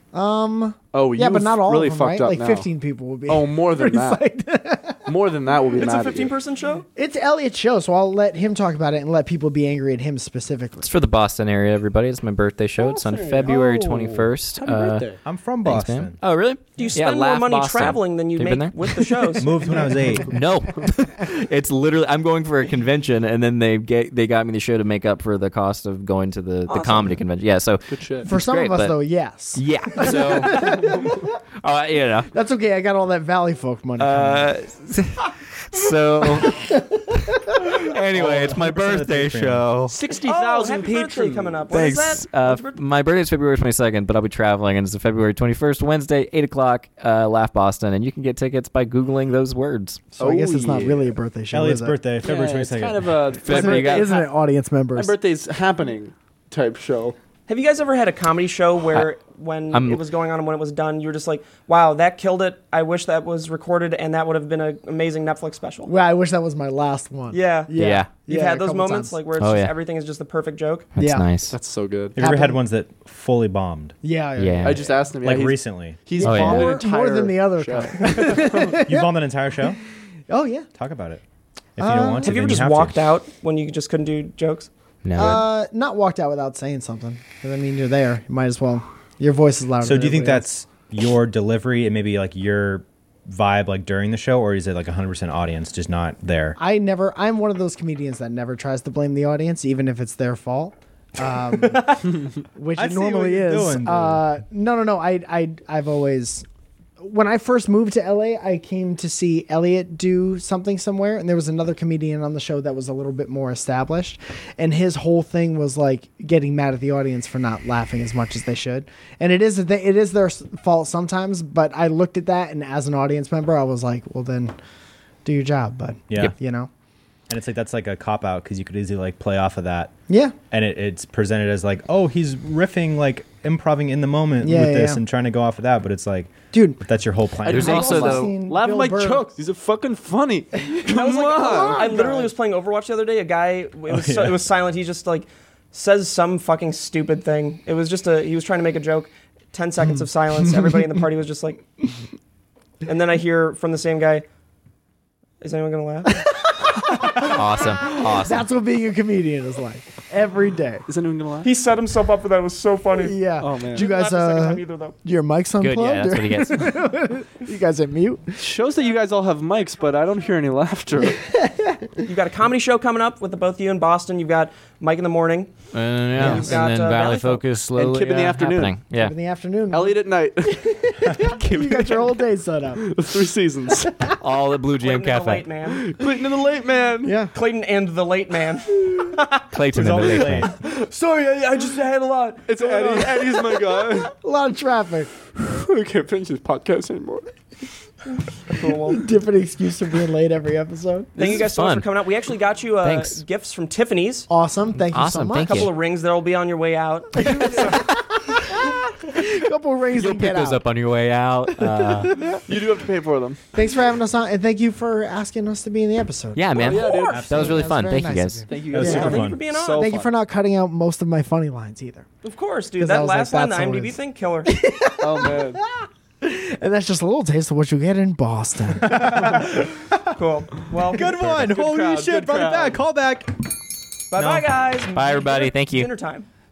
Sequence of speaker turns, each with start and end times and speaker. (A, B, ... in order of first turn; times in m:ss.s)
0:00.1-0:05.1 A
0:00.9-0:02.7 B
0:03.3-0:04.2 B
0:05.1-0:06.3 B
0:05.8-0:06.9 C
0:07.0-0:10.9 A
0:10.8-0:15.0 D
0:12.8-0:15.2 B
0:15.2-0:16.2 E
0:15.6-0:19.4 D
0:16.8-0:19.6 C
0:19.4-0:20.4 E
0:20.3-0:29.0 D
0:26.7-0:27.0 C
0:27.9-0:28.3 B
0:28.2-0:31.3 A
0:29.5-0:31.1 D
0:30.5-0:31.2 B
0:31.6-0:32.3 D
0:32.3-0:34.5 A
0:34.0-0:40.0 D
0:36.5-0:36.8 A
0:38.1-0:39.7 E
0:39.9-0:41.7 B
0:40.2-0:42.8 C
0:41.7-0:50.0 D
0:50.2-0:51.1 B
0:50.2-0:52.1 A
0:51.5-0:53.2 E
0:52.2-0:54.3 B
0:53.4-0:54.2 D
0:53.5-0:55.2 A
0:54.9-0:57.2 B
0:57.5-1:05.9 C
0:59.7-1:00.0 D
1:05.9-1:09.2 A
1:07.3-1:10.9 C
1:07.8-1:08.1 D
1:09.4-1:09.7 D
1:11.0-1:11.6 D
1:11.0-1:11.3 A
1:11.5-1:12.2 B
1:12.2-1:14.0 E
1:12.2-1:12.6 A
1:14.0-1:15.1 A
1:14.4-1:14.8 D
1:14.6-1:18.8 B
1:15.2-1:16.0 E
1:16.2-1:19.1 A
1:16.2-1:16.8 D
1:18.8-1:19.8 E
1:20.3-1:20.7 A
1:20.8-1:21.2 E
1:21.8-1:23.0 E
1:21.8-1:22.4 A
1:22.2-1:24.7 C
1:25.0-1:25.5 D
1:25.2-1:30.4 A
1:29.8-1:36.6 E
1:36.6-1:46.5 A
1:42.8-1:44.2 E
1:47.0-2:04.6 A
2:05.2-2:06.7 A
2:07.3-2:09.9 E
2:10.1-2:10.4 A
2:10.5-2:17.9 E
2:14.4-2:15.0 A
2:16.5-2:16.8 A
2:17.4-2:22.0 B
2:17.5-2:18.4 D
2:17.5-2:19.3 A
2:20.8-2:31.6 C
2:21.4-2:22.3 A
2:23.9-2:24.5 E
2:32.8-2:34.3 C
2:35.4-2:36.3 C
2:36.3-2:40.9 A
2:37.2-2:38.4 D
2:40.9-2:41.5 B
2:41.4-2:45.0 C
2:43.0-2:48.4 A
2:43.4-2:43.9 B
2:45.6-2:46.8 D
2:48.4-2:51.2 B
2:51.2-2:52.0 A
2:52.0-2:55.5 C
2:55.7-2:59.1 D
2:56.2-2:57.4 C
2:56.2-2:56.6 A
2:57.8-2:58.8 B
2:59.0-3:03.0 A
2:59.7-3:00.7 B
3:01.2-3:02.1 B
3:02.8-3:04.1 B
3:04.2-3:05.5 D
3:04.8-3:05.8 C
3:05.7-3:07.2 B
3:07.0-3:07.3 A
3:07.3-3:09.4 C
3:09.5-3:10.5 D
3:09.7-3:10.5 E
3:10.3-3:15.3 A
3:10.7-3:14.2 B
3:15.3-3:17.3 B
3:18.5-3:19.0 C
3:18.8-3:21.3 A
3:21.2-3:24.3 C
3:21.2-3:21.9 D
3:22.8-3:23.2 D
3:24.3-3:25.7 A
3:24.8-3:25.7 D
3:25.4-3:27.8 C
3:27.2-3:30.6 A
3:29.9-3:32.2 D
3:31.6-3:32.4 A
3:32.4-3:33.4 B
3:33.5-3:42.1 A
3:36.4-3:38.5 D
3:36.6-3:37.4 C
3:36.6-3:37.3 B
3:37.1-3:37.6 E
3:38.5-3:40.1 B
3:38.7-3:39.4 E
3:38.7-3:40.0 C
3:42.2-3:44.6 C
3:42.8-3:49.5 A
3:45.0-3:45.6 B
3:48.9-3:49.4 E
3:50.2-3:51.3 C
3:50.9-3:53.3 E
3:51.3-3:52.8 B
3:54.1-3:56.3 C
3:54.1-3:54.5 E
3:55.0-3:55.9 D